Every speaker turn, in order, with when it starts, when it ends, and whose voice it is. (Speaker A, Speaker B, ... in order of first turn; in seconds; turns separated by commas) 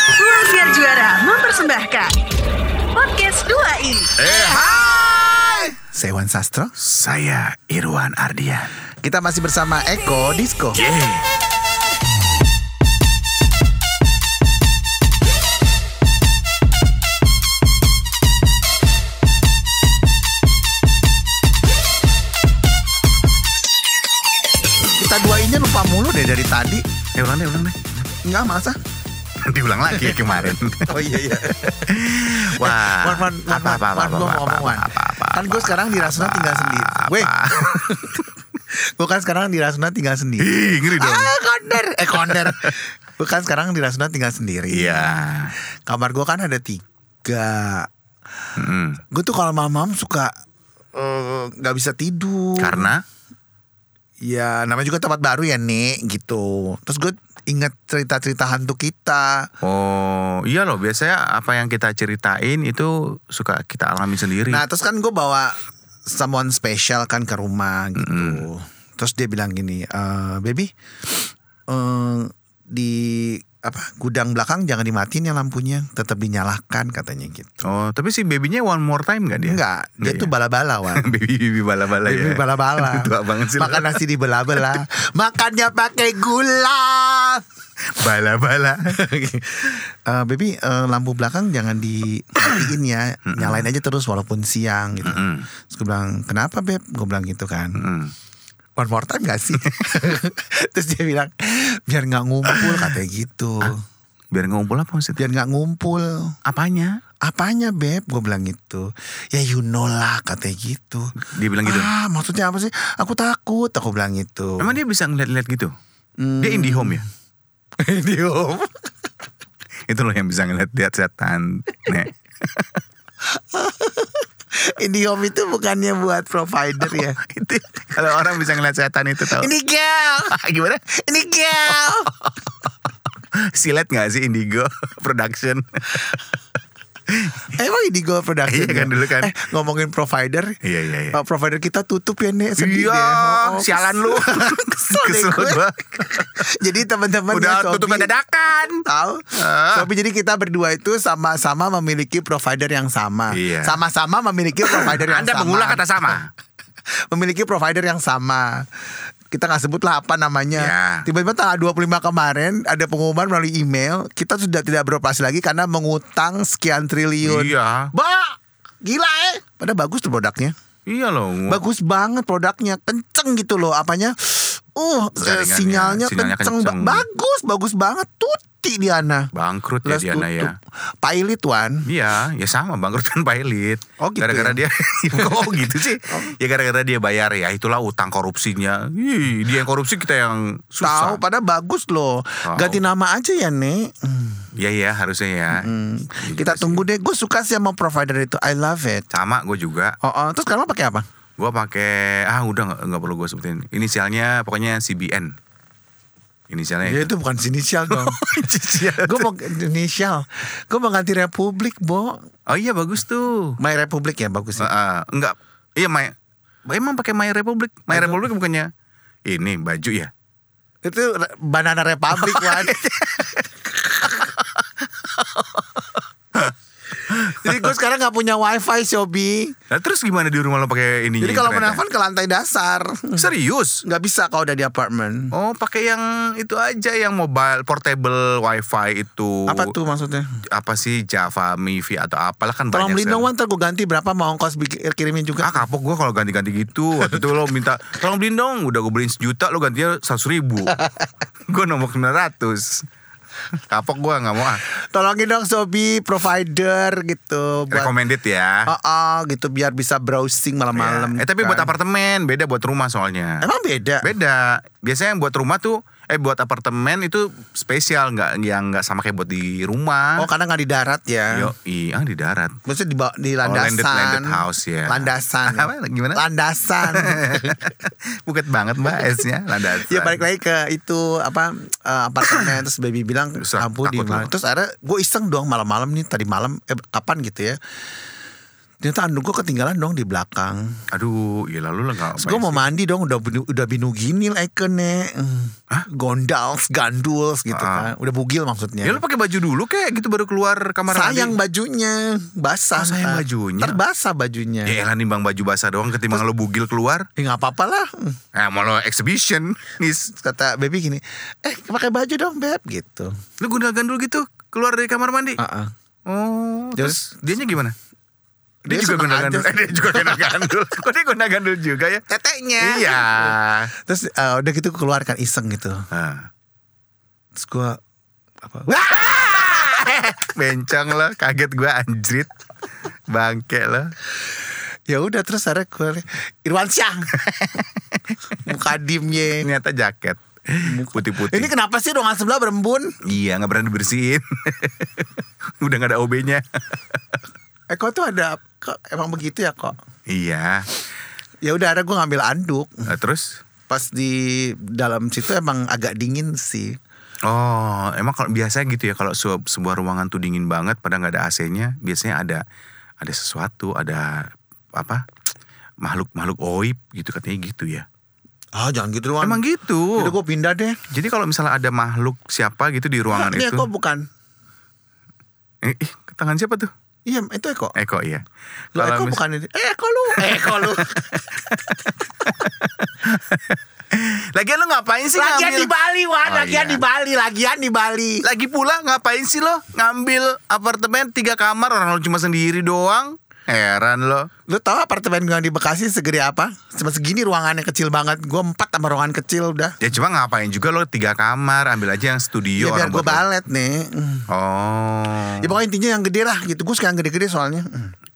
Speaker A: 0.1-2.2, Speaker A: 2.9-4.2, Speaker B: 4.2-5.6, Speaker C: 4.3-6.7, Speaker B: 6.8-8.7, Speaker C: 9.0-10.9, Speaker B: 10.7-11.3, Speaker C: 24.9-26.8, Speaker B: 27.2-28.1, Speaker C: 28.2-28.8, Speaker B: 29.4-30.9, Speaker C: 30.0-45.1, Speaker B: 31.9-38.3, Speaker B: 40.4-41.3, Speaker B: 42.2-42.7, Speaker B: 44.7-45.5, Speaker C: 45.9-47.9, Speaker B: 48.6-49.0, Speaker C: 49.1-50.3, Speaker C: 51.0-52.9, Speaker B: 52.6-53.0, Speaker C: 54.2-59.5, Speaker B: 59.6-64.6, Speaker C: 64.5-77.7, Speaker B: 68.0-68.5, Speaker B: 77.6-80.3, Speaker C: 79.5-81.1, Speaker B: 80.9-84.0, Speaker C: 82.0-87.4, Speaker B: 88.0-89.0, Speaker C: 88.9-97.8, Speaker B: 93.3-93.7, Speaker B: 95.0-95.5, Speaker B: 97.8-98.1, Speaker C: 98.8-103.8, Speaker B: 102.5-102.7, Speaker B: 104.3-105.2, Speaker C: 105.2-106.4, Speaker B: 106.5-107.0, Speaker C: 107.2-111.1, Speaker B: 111.2-111.9, Speaker C: 111.6-114.8, Speaker B: 114.6-115.7, Speaker C: 116.2-117.0, Speaker B: 116.4-117.0, Speaker C: 117.8-118.7, Speaker B: 119.9-122.8, Speaker C: 123.3-127.2, Speaker B: 126.9-129.5, Speaker C: 129.3-130.3, Speaker B: 130.3-130.9, Speaker C: 131.0-132.1, Speaker B: 131.7-132.3, Speaker B: 133.4-136.2, Speaker B: 137.1-137.5, Speaker C: 137.5-140.5, Speaker B: 138.5-139.3, Speaker B: 140.6-141.2, Speaker C: 141.1-148.1, Speaker B: 142.6-146.5, Speaker B: 147.3-148.8, Speaker C: 148.8-156.2, Speaker B: 149.3-149.9, Speaker B: 153.3-153.8, Speaker B: 154.6-156.3, Speaker C: 157.1-158.7, Speaker C: 159.3-170.5, Speaker B: 160.6-161.1, Speaker B: 167.2-167.9, Speaker B: 170.9-171.6, Speaker C: 171.5-179.3, Speaker B: 175.2-177.0, Speaker B: 179.3-180.5, Speaker C: 179.8-181.8, Speaker B: 181.8-191.2, Speaker C: 184.0-184.6, Speaker C: 185.2-186.3, Speaker C: 190.8-194.5, Speaker B: 192.4-192.8, Speaker B: 194.6-196.8, Speaker C: 195.5-199.1, Speaker B: 199.1-199.9, Speaker C: 200.0-201.0, Speaker B: 201.4-205.3, Speaker B: 206.5-207.1, Speaker C: 206.8-208.2, Speaker B: 207.9-209.3, Speaker C: 208.9-212.2, Speaker B: 212.5-213.6, Speaker C: 213.6-214.7, Speaker B: 214.6-216.1, Speaker B: 216.7-218.7, Speaker C: 217.9-218.2, Speaker B: 219.3-220.1, Speaker C: 220.8-224.2, Speaker B: 222.1-223.4, Speaker B: 225.0-225.4, Speaker C: 227.1-229.5, Speaker B: 227.2-227.7, Speaker B: 229.7-231.8, Speaker C: 231.2-233.3, Speaker B: 233.2-233.8, Speaker C: 233.8-235.3, Speaker B: 235.3-239.7, Speaker C: 239.5-240.3, Speaker B: 240.5-243.3, Speaker C: 242.7-245.5, Speaker B: 245.4-250.7, Speaker B: 251.5-252.8, Speaker B: 253.7-254.6, Speaker C: 254.7-257.9, Speaker B: 257.7-258.7, Speaker C: 258.7-261.7, Speaker B: 260.8-263.4, Speaker C: 263.4-264.1, Speaker B: 264.0-270.3, Speaker C: 270.2-271.5, Speaker B: 271.3-272.6, Speaker C: 272.7-277.7, Speaker B: 273.4-276.2, Speaker B: 276.9-280.2, Speaker C: 279.7-287.6, Speaker B: 283.4-284.3, Speaker C: 288.8-290.8, Speaker B: 290.9-292.6, Speaker C: 292.2-299.0, Speaker B: 297.5-297.9, Speaker B: 298.8-301.4, Speaker C: 300.9-304.8, Speaker B: 302.8-303.8, Speaker B: 304.7-307.1, Speaker C: 307.2-308.2, Speaker B: 308.4-310.1, Speaker C: 310.1-313.1, Speaker B: 313.4-315.4, Speaker C: 315.4-315.7, Speaker B: 316.1-317.8, Speaker C: 318.6-320.5, Speaker B: 318.7-322.0, Speaker C: 322.1-325.8, Speaker B: 322.6-323.7, Speaker B: 325.9-326.3, Speaker C: 327.4-327.8, Speaker C: 328.4-330.2, Speaker B: 329.0-332.3, Speaker B: 333.1-333.9, Speaker C: 334.9-337.2, Speaker B: 337.2-338.0, Speaker C: 338.4-339.5, Speaker B: 339.4-341.5, Speaker C: 340.6-342.9, Speaker B: 343.1-347.2, Speaker C: 347.7-349.8, Speaker B: 350.1-350.7, Speaker C: 351.4-352.9, Speaker B: 352.9-353.4, Speaker C: 353.7-356.8, Speaker B: 357.2-362.4, Speaker B: 363.0-365.0, Speaker B: 365.8-367.9, Speaker C: 368.6-369.4, Speaker B: 369.2-370.1, Speaker C: 370.0-370.8, Speaker B: 370.9-373.7, Speaker C: 373.1-374.0, Speaker B: 375.6-376.7, Speaker C: 377.1-377.8, Speaker B: 377.8-379.2, Speaker C: 378.8-381.2, Speaker B: 380.2-385.7, Speaker C: 385.1-388.2, Speaker B: 386.2-386.8, Speaker B: 388.2-394.3, Speaker C: 394.5-399.8, Speaker B: 399.8-403.2, Speaker C: 402.6-404.3, Speaker B: 404.3-405.6, Speaker C: 405.4-407.9